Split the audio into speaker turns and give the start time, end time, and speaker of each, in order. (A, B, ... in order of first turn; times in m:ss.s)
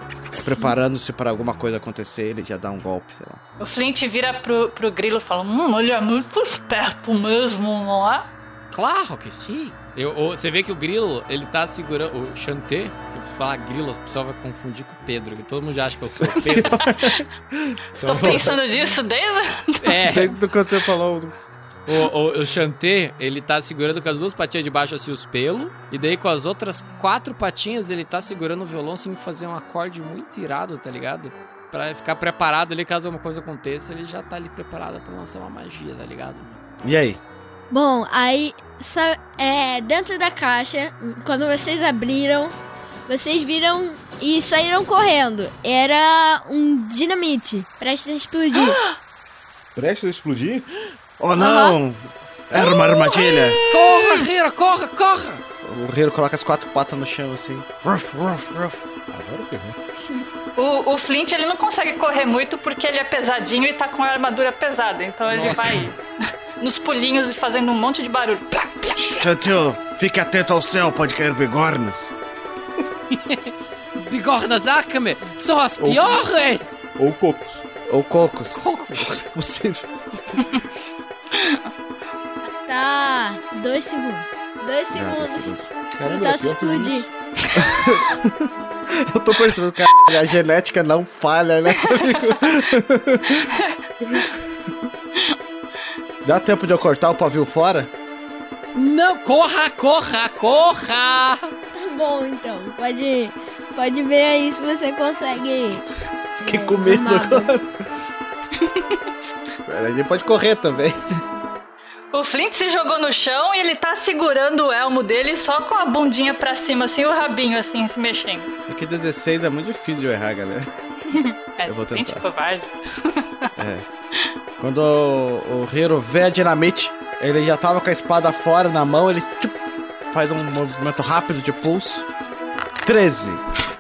0:00.3-0:03.4 A
0:03.6-0:08.3 B
0:08.7-0:16.9 C
0:16.2-0:18.5 A
0:18.0-0:20.0 B
0:18.0-0:18.6 C
0:19.8-0:20.4 C
0:20.1-0:21.3 A
0:21.9-0:36.6 C
0:36.8-0:37.2 A
0:37.7-0:42.6 D
0:43.1-0:48.8 D
0:49.8-0:50.7 E
0:51.2-0:53.6 A
0:51.4-0:51.8 D
0:52.5-0:54.3 B
0:53.7-0:55.4 C
0:55.6-0:58.9 A
0:59.1-0:59.8 E
1:00.6-1:06.0 B
1:05.3-1:05.9 C
1:06.6-1:09.3 B
1:09.0-1:12.1 A
1:13.1-1:16.8 C
1:15.8-1:16.2 E
1:17.0-1:17.6 E
1:17.9-1:19.9 A
1:18.6-1:19.2 C
1:22.7-1:25.5 D
1:24.9-1:25.7 A
1:26.0-1:27.1 E
1:26.1-1:27.1 D
1:27.6-1:33.5 A
1:31.9-1:32.3 B
1:36.2-1:37.9 A
1:38.8-1:41.5 C
1:41.8-1:45.8 D
1:46.4-1:47.7 A
1:46.4-1:47.5 D
1:49.7-1:51.2 A
1:52.1-1:58.5 B
1:58.7-2:00.7 A
2:01.1-2:03.5 B
2:01.7-2:02.2 A
2:03.6-2:03.9 A
2:04.6-2:12.1 A
2:12.8-2:13.4 A